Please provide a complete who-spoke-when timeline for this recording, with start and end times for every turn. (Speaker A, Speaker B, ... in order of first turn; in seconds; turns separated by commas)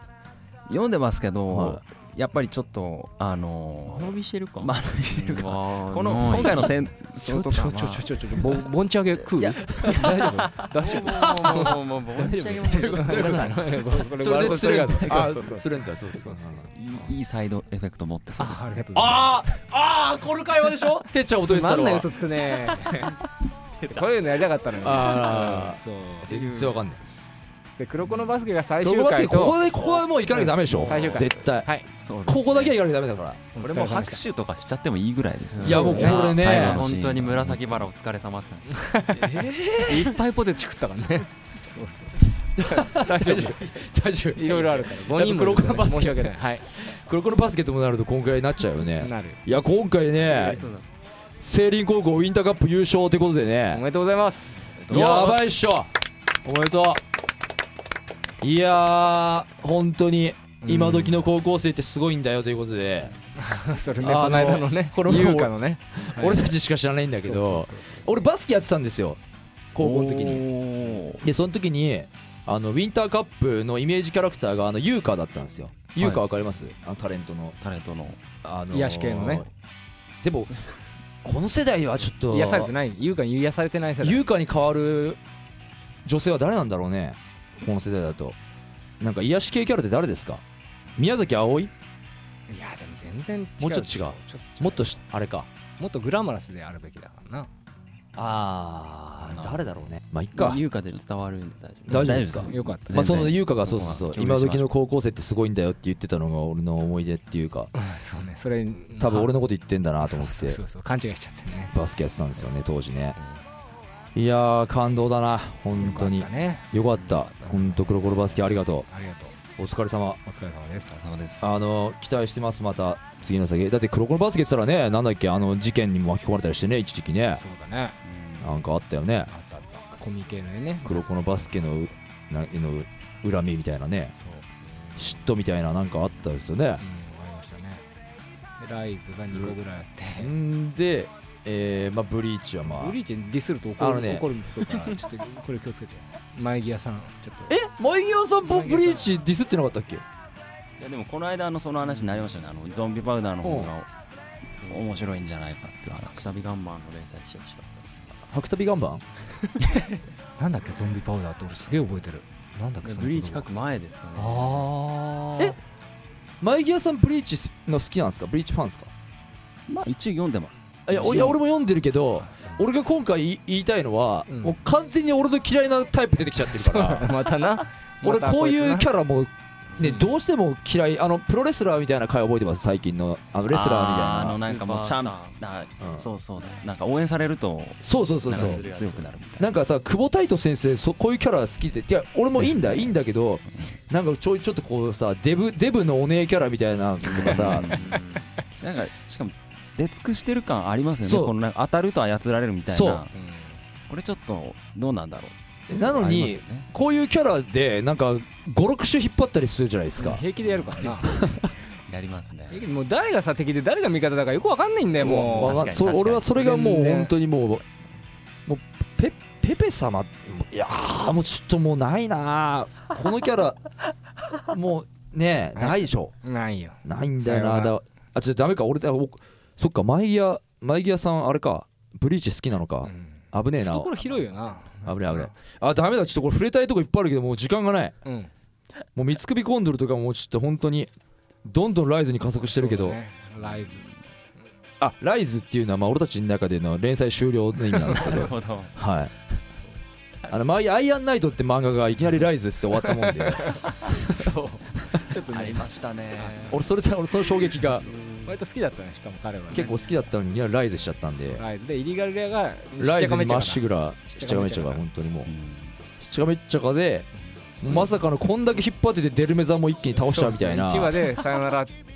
Speaker A: 0.7-8.2, Speaker B: 1.5-1.8, Speaker C: 3.8-6.8, Speaker D: 7.2-17.1, Speaker A: 9.2-9.7, Speaker B: 9.8-10.1, Speaker C: 9.8-13.6, Speaker B: 11.1-11.7, Speaker B: 12.7-16.7, Speaker A: 16.7-18.6, Speaker D: 18.4-19.5, Speaker B: 18.9-22.1, Speaker D: 21.3-23.2, Speaker D: 23.8-26.3, Speaker B: 24.8-27.0, Speaker C: 26.3-26.8, Speaker D: 27.7-31.9, Speaker B: 28.8-31.7, Speaker C: 30.3-31.3, Speaker C: 32.0-32.7, Speaker B: 32.2-33.4, Speaker D: 33.5-34.2, Speaker A: 33.6-37.8, Speaker C: 35.5-38.7, Speaker D: 35.6-36.3, Speaker B: 35.6-36.8, Speaker D: 38.7-43.8, Speaker B: 39.1-40.1, Speaker B: 42.5-50.6, Speaker D: 44.3-46.7, Speaker D: 48.8-49.4, Speaker C: 50.2-50.9, Speaker B: 51.4-53.8, Speaker D: 53.7-55.6, Speaker A: 54.8-55.4, Speaker B: 54.9-55.9, Speaker B: 56.4-57.0, Speaker B: 58.4-63.1, Speaker D: 60.6-61.2, Speaker D: 63.4-66.6, Speaker B: 64.0-69.2, Speaker D: 67.1-68.3, Speaker B: 69.7-70.5, Speaker A: 69.8-71.2, Speaker B: 71.2-77.5, Speaker A: 76.0-76.2, Speaker A: 77.6-78.2, Speaker B: 78.4-79.5, Speaker D: 78.7-79.5, Speaker B: 80.2-80.6, Speaker B: 81.2-82.7, Speaker D: 82.3-84.2, Speaker B: 84.0-85.2, Speaker B: 86.0-88.3, Speaker B: 89.0-90.4, Speaker B: 91.0-91.7, Speaker D: 92.5-95.0, Speaker B: 93.6-95.5, Speaker D: 95.8-97.5, Speaker B: 98.2-100.6, Speaker A: 99.2-99.6, Speaker C: 100.3-102.3, Speaker A: 101.9-104.8, Speaker B: 101.9-107.7, Speaker D: 102.3-103.3, Speaker D: 107.7-109.3, Speaker B: 109.0-110.6, Speaker D: 110.0-111.7, Speaker B: 111.7-113.2, Speaker A: 113.2-113.4, Speaker B: 114.1-118.8, Speaker D: 115.7-119.3, Speaker A: 116.9-117.2, Speaker B: 119.6-120.2, Speaker D: 120.2-121.0, Speaker A: 120.9-121.6, Speaker B: 121.4-127.4, Speaker D: 127.3-128.0, Speaker A: 128.0-128.6, Speaker B: 128.4-129.3, Speaker D: 129.3-131.9, Speaker B: 130.8-134.1, Speaker D: 134.1-134.4, Speaker B: 135.0-136.8, Speaker D: 136.8-137.8, Speaker D: 138.6-140.3, Speaker B: 140.2-143.0, Speaker D: 142.6-147.6, Speaker B: 143.8-144.2, Speaker B: 147.5-150.0, Speaker D: 148.4-149.1, Speaker A: 150.8-153.9, Speaker B: 153.4-153.7, Speaker C: 154.6-155.0, Speaker A: 154.7-156.2, Speaker C: 156.1-157.9, Speaker B: 158.3-159.0, Speaker D: 160.4-163.4, Speaker C: 162.8-164.7, Speaker D: 164.2-165.5, Speaker B: 166.4-168.9, Speaker A: 169.7-171.3, Speaker B: 170.9-177.2, Speaker D: 170.9-171.4, Speaker D: 174.3-174.6, Speaker D: 176.4-178.9, Speaker B: 178.0-184.4, Speaker D: 179.8-180.2, Speaker A: 183.5-189.5, Speaker C: 184.3-185.4, Speaker B: 187.8-188.6, Speaker C: 188.3-189.1, Speaker B: 189.4-197.7, Speaker A: 192.3-192.9, Speaker A: 197.0-198.0, Speaker C: 197.4-198.3, Speaker A: 198.6-203.1, Speaker B: 201.0-201.3, Speaker B: 202.7-203.0, Speaker D: 203.1-203.6, Speaker A: 203.9-206.7, Speaker B: 205.7-210.2, Speaker D: 209.9-211.3, Speaker A: 210.5-211.3, Speaker B: 211.0-211.5, Speaker A: 211.9-212.7, Speaker D: 212.5-215.7, Speaker B: 215.0-217.6, Speaker A: 215.3-216.3, Speaker D: 216.3-217.1, Speaker B: 218.4-223.6, Speaker B: 224.4-226.1, Speaker D: 225.6-227.8, Speaker B: 226.8-234.0, Speaker D: 232.8-235.3, Speaker B: 234.8-237.9, Speaker D: 238.0-238.3, Speaker B: 238.9-240.9, Speaker B: 241.4-243.0, Speaker D: 242.4-244.0, Speaker A: 243.4-243.8, Speaker B: 244.8-249.1, Speaker D: 247.8-248.3, Speaker A: 247.9-248.8, Speaker D: 249.5-249.8, Speaker B: 250.3-254.3, Speaker D: 252.8-256.6, Speaker B: 254.8-255.1, Speaker A: 255.3-256.6, Speaker B: 256.5-257.9, Speaker D: 257.4-260.0, Speaker B: 259.5-261.4, Speaker D: 261.2-264.9, Speaker B: 262.8-265.3, Speaker A: 265.2-265.8, Speaker B: 266.0-267.1, Speaker B: 267.6-271.0, Speaker D: 267.7-267.9, Speaker D: 269.9-271.7